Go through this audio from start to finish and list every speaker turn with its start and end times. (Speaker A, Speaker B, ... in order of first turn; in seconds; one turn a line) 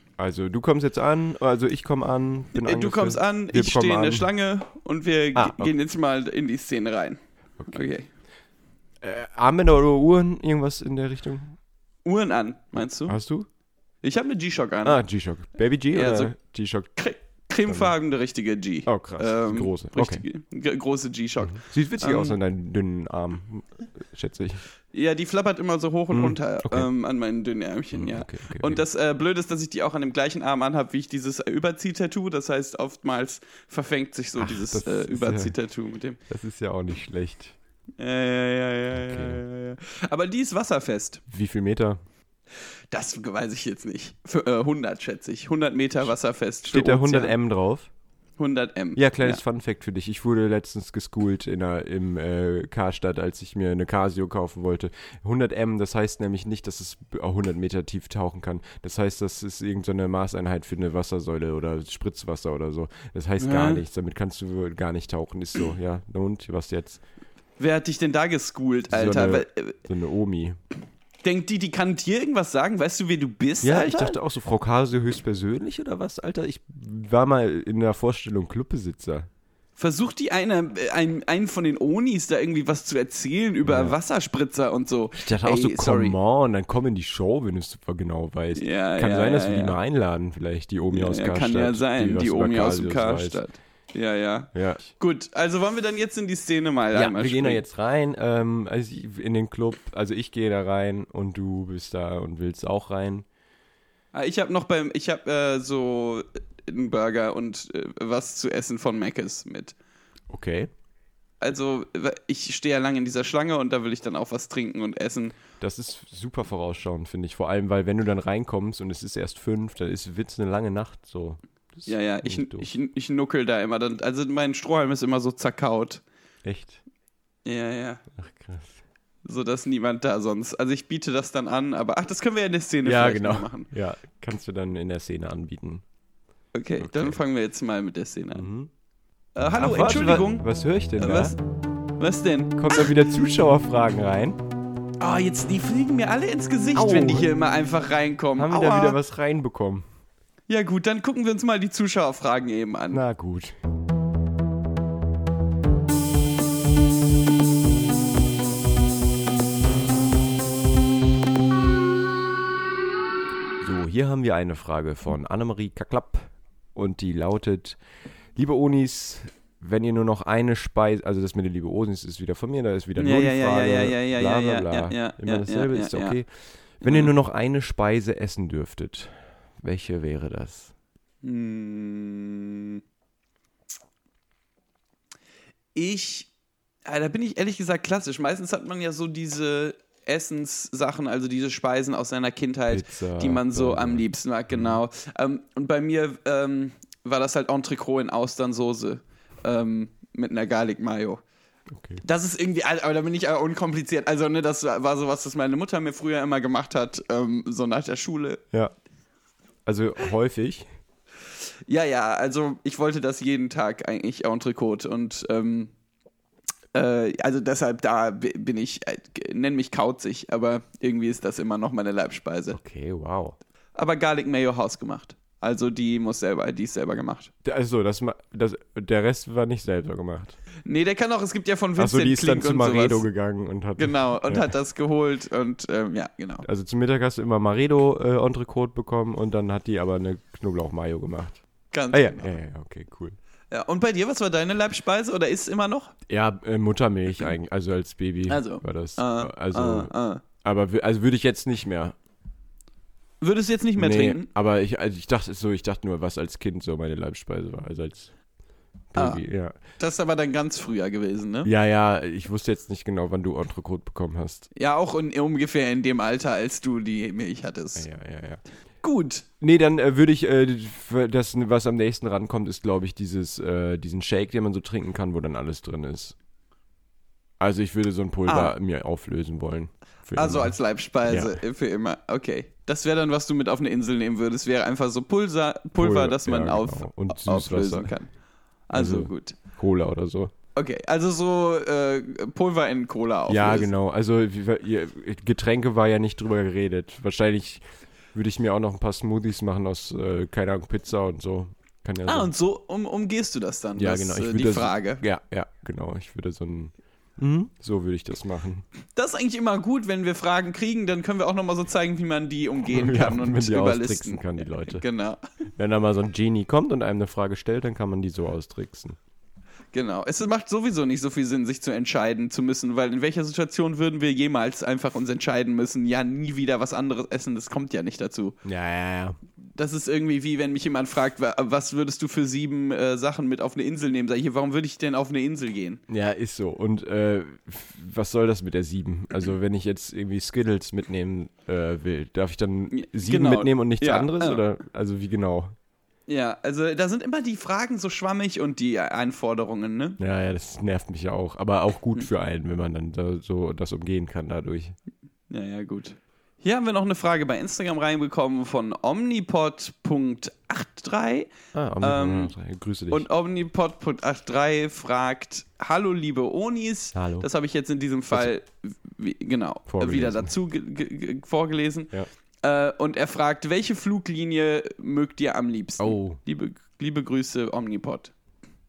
Speaker A: 0.2-4.3
Speaker B: 2.5-7.2
Speaker A: 5.3-5.7
Speaker A: 7.6-7.9
Speaker B: 7.7-8.1
Speaker A: 9.0-11.6
Speaker B: 12.0-13.2
Speaker A: 12.8-13.5
Speaker B: 14.0-15.0
Speaker A: 14.8-16.9
Speaker B: 15.9-16.3
Speaker B: 16.9-22.4
Speaker A: 17.6-17.9
Speaker A: 18.9-20.2
Speaker A: 21.4-24.6
Speaker B: 24.9-36.2
Speaker A: 26.1-26.9
Speaker A: 27.9-28.8
Speaker A: 34.4-35.5
Speaker A: 36.3-37.5
Speaker B: 38.0-41.2
Speaker A: 38.9-39.4
Speaker A: 41.3-42.0
Speaker B: 42.9-47.4
Speaker A: 46.6-47.9
Speaker B: 48.4-49.4
Speaker A: 49.0-67.0
Speaker B: 63.4-63.8
Speaker B: 67.6-69.8
Speaker A: 68.9-70.6
Speaker B: 71.2-74.2
Speaker A: 73.6-79.3
Speaker B: 79.8-86.1
Speaker A: 83.6-84.0
Speaker A: 85.1-93.4
Speaker B: 88.5-89.8
Speaker B: 90.9-97.6
Speaker A: 94.5-94.9
Speaker A: 96.9-103.2
Speaker B: 104.1-109.8
Speaker A: 110.3-110.7
Speaker B: 111.4-115.3
Speaker A: 115.6-122.7
Speaker B: 121.9-126.0
Speaker A: 126.4-126.8
Speaker B: 127.4-128.0
Speaker A: 128.1-128.8
Speaker B: 129.2-133.7
Speaker A: 132.8-135.8
Speaker B: 136.5-138.5
Speaker A: 136.8-137.2
Speaker A: 138.3-138.7
Speaker B: 139.3-140.4
Speaker A: 139.5-141.3
Speaker B: 141.0-141.4
Speaker B: 142.0-142.9
Speaker A: 142.6-144.4
Speaker B: 145.0-149.0
Speaker A: 146.7-147.3
Speaker A: 148.4-149.8
Speaker B: 150.5-153.0
Speaker A: 152.9-153.6
Speaker A: 163.6-167.8
Speaker A: 168.3-176.3
Speaker B: 173.0-176.2
Speaker A: 176.8-180.7
Speaker B: 176.8-177.1
Speaker B: 181.2-182.8
Speaker B: 185.7-186.3
Speaker B: 186.8-201.2
Speaker A: 192.7-194.8
Speaker A: 201.7-202.0
Speaker B: 202.0-208.4
Speaker A: 209.7-210.7
Speaker B: 211.7-215.7
Speaker B: 216.7-222.6
Speaker A: 222.5-223.3
Speaker B: 223.7-227.3
Speaker A: 227.4-230.4
Speaker B: 230.7-233.0
Speaker A: 231.8-234.5
Speaker B: 233.8-236.4
Speaker A: 236.4-241.4
Speaker B: 241.7-242.3
Speaker A: 241.9-243.2
Speaker B: 243.5-245.9
Speaker A: 246.1-251.9
Speaker B: 248.3-250.2
Speaker B: 253.2-254.3
Speaker A: 253.8-258.1
Speaker A: 258.9-259.5
Speaker B: 258.9-259.2
Speaker B: 259.8-261.5
Speaker A: 261.4-264.5
Speaker B: 264.5-267.9
Speaker A: 267.8-268.4
Speaker B: 268.8-269.3
Speaker A: 269.4-276.1
Speaker A: 277.4-281.4
Speaker B: 278.2-278.5
Speaker B: 280.1-288.1
Speaker A: 285.8-287.9
Speaker B: 288.7-289.4
Speaker A: 288.7-290.3
Speaker B: 290.5-293.7
Speaker A: 293.3-302.3
Speaker B: 302.1-305.0
Speaker A: 303.8-308.6
Speaker B: 308.9-315.2
Speaker A: 312.7-314.8
Speaker A: 315.6-319.0
Speaker B: 319.7-328.4
Speaker A: 328.4-329.2
Speaker B: 329.5-335.8
Speaker A: 335.9-345.5
Speaker B: 342.7-344.4
Speaker B: 346.1-350.0
Speaker A: 350.0-354.8
Speaker B: 355.3-361.3
Speaker A: 361.5-363.1
Speaker B: 361.8-362.3
Speaker B: 362.9-371.9
Speaker A: 366.9-367.3
Speaker A: 369.7-370.3
Speaker B: 372.4-378.1
Speaker A: 375.8-376.2